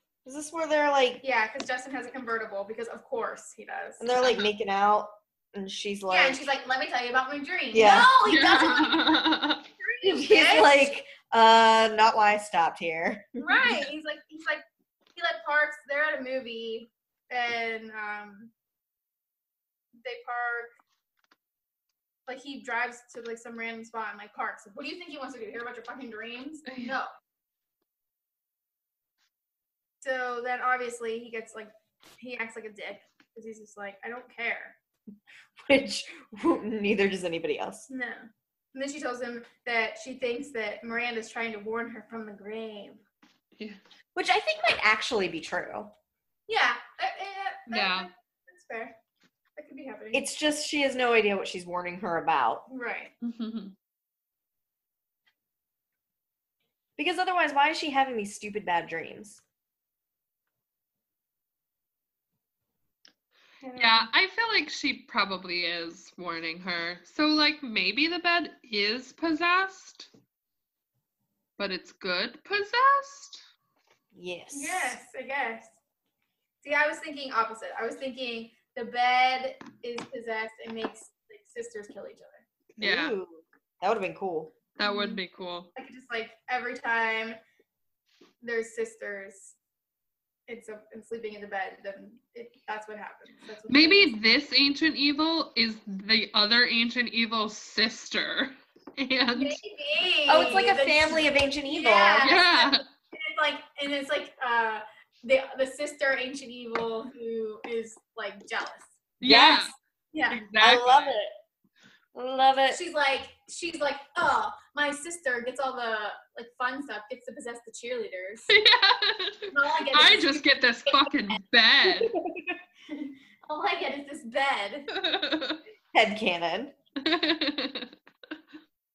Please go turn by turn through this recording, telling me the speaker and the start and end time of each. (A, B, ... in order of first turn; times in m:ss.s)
0:00.2-0:01.2 A
0:01.2-0:04.4 B
0:04.0-0:06.4 A
0:06.1-0:10.9 B
0:07.7-0:08.1 A
0:08.3-0:09.6 C
0:10.0-0:13.5 A
0:13.4-0:14.6 B
0:15.1-0:18.5 B
0:20.0-0:20.7 B
0:22.3-0:27.1 B
0:26.7-0:26.9 C
0:30.0-0:34.8 B
0:35.6-0:37.9 A
0:37.9-0:43.0 B
0:44.1-0:45.9 A
0:46.5-0:49.0 B
0:47.7-0:48.1 C
0:49.6-0:50.3 B
0:50.1-0:52.7 A
0:52.7-0:53.1 B
0:53.2-0:53.7 C
0:57.0-0:59.4 A
1:03.6-1:04.1 B
1:03.8-1:10.1 C
1:11.6-1:13.4 C
1:14.1-1:15.0 A
1:14.5-1:15.8 B
1:16.6-1:22.4 B
1:22.8-1:23.2 C
1:22.8-1:24.5 A
1:24.8-1:25.7 C
1:24.8-1:25.2 B
1:25.8-1:27.4 B
1:28.4-1:29.6 B
1:30.5-1:34.2 B
1:33.7-1:39.6 C
1:39.4-1:48.9 B
1:40.3-1:42.3 A
1:42.2-1:42.8 C
1:49.2-1:49.7 C
1:49.2-1:49.7 A
1:50.1-1:50.4 B
1:50.3-1:51.2 C
1:50.6-1:51.3 A
1:52.1-1:52.8 A
1:52.7-1:58.5 B
1:58.5-2:02.1 C
1:59.5-2:01.1 B
2:01.9-2:02.6 A
2:02.9-2:04.9 B
2:04.9-2:05.6 C
2:05.9-2:06.7 A
2:07.0-2:07.9 C